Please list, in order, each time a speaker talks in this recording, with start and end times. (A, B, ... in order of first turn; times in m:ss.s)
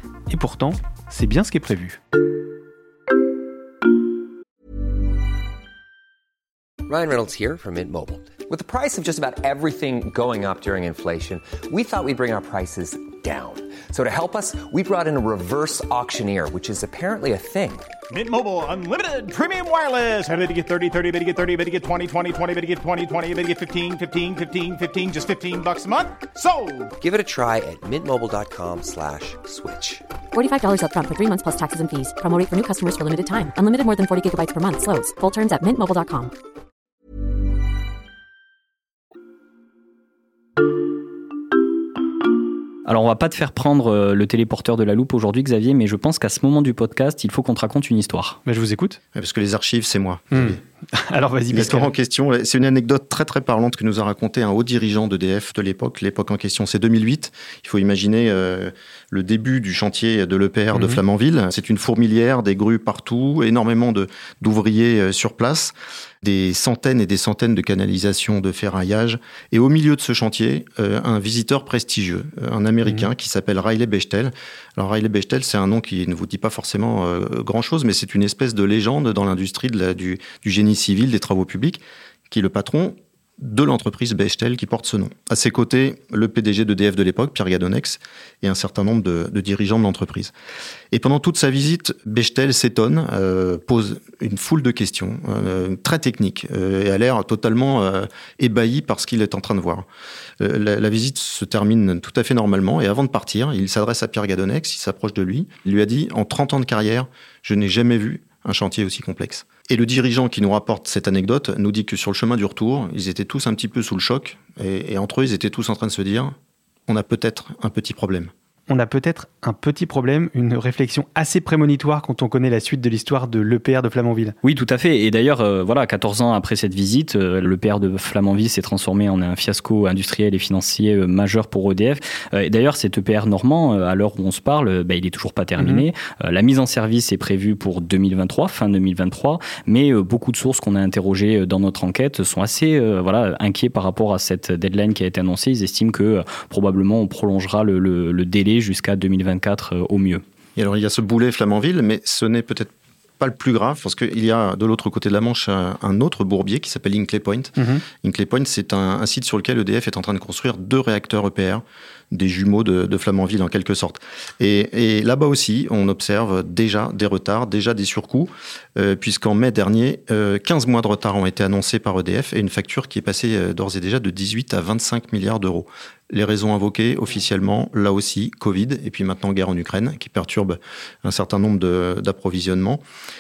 0:00.3-0:02.0 A
0:06.9-0:17.9 B
0:18.1-0:26.9 C
0:27.0-0:30.0 B
0:30.3-0:36.3 D
0:42.9-0:48.4 E
0:48.4-0:49.0 A
0:49.1-0:50.6 F
0:50.3-0:51.9 A
0:51.5-1:30.3 F
1:00.7-1:01.0 A
1:30.9-1:39.9 F
1:40.4-1:56.4 F
1:56.9-1:58.3 F
1:58.7-2:04.3 A
2:04.4-2:30.2 E
2:15.6-2:15.9 A
2:30.6-3:02.8 F
2:37.6-2:37.8 A